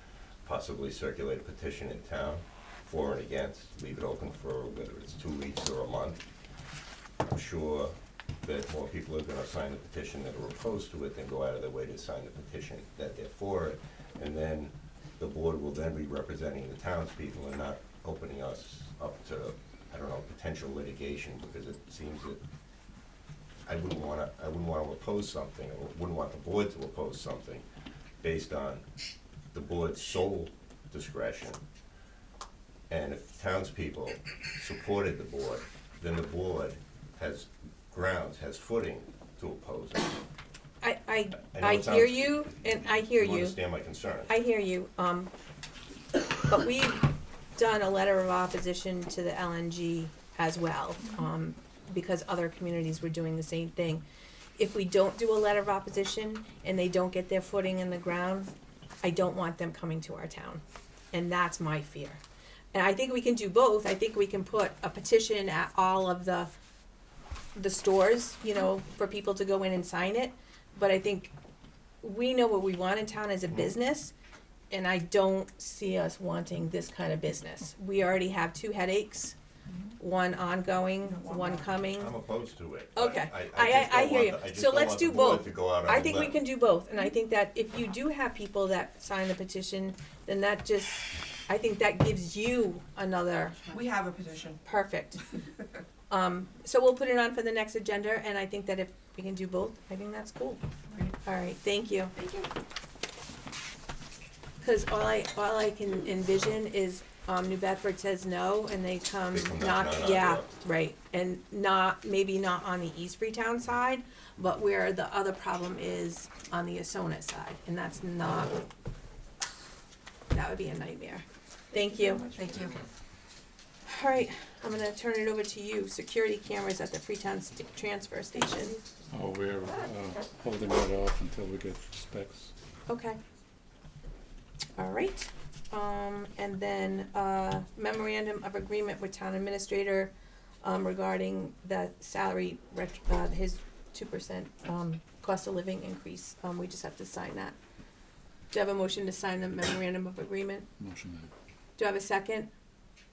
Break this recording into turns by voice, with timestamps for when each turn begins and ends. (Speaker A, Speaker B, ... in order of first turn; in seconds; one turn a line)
Speaker A: 0.5-6.2
Speaker A: 7.2-22.4
Speaker A: 23.7-27.7
Speaker A: 28.2-28.9
Speaker A: 29.5-31.6
Speaker A: 32.9-40.2
Speaker B: 40.8-43.6
Speaker A: 41.3-44.3
Speaker B: 44.3-45.3
Speaker B: 46.5-54.0
Speaker B: 54.6-58.5
Speaker B: 59.0-60.6
Speaker B: 61.1-62.2
Speaker B: 62.7-66.5
Speaker B: 67.6-71.3
Speaker B: 72.0-74.1
Speaker B: 74.7-79.4
Speaker B: 80.0-82.1
Speaker C: 81.1-81.7
Speaker A: 81.8-86.4
Speaker B: 83.0-93.7
Speaker C: 93.7-94.6
Speaker B: 94.7-95.2
Speaker B: 96.1-100.6
Speaker C: 100.9-101.2
Speaker B: 101.2-102.2
Speaker C: 102.2-102.5
Speaker B: 104.6-118.6
Speaker A: 109.3-110.5
Speaker B: 120.3-122.5
Speaker C: 122.2-122.8
Speaker B: 123.9-128.8
Speaker D: 129.1-132.5
Speaker B: 132.9-133.2
Speaker B: 134.8-140.1
Speaker B: 140.6-147.6
Speaker B: 148.5-150.7
Speaker D: 150.8-151.3
Speaker B: 151.8-152.5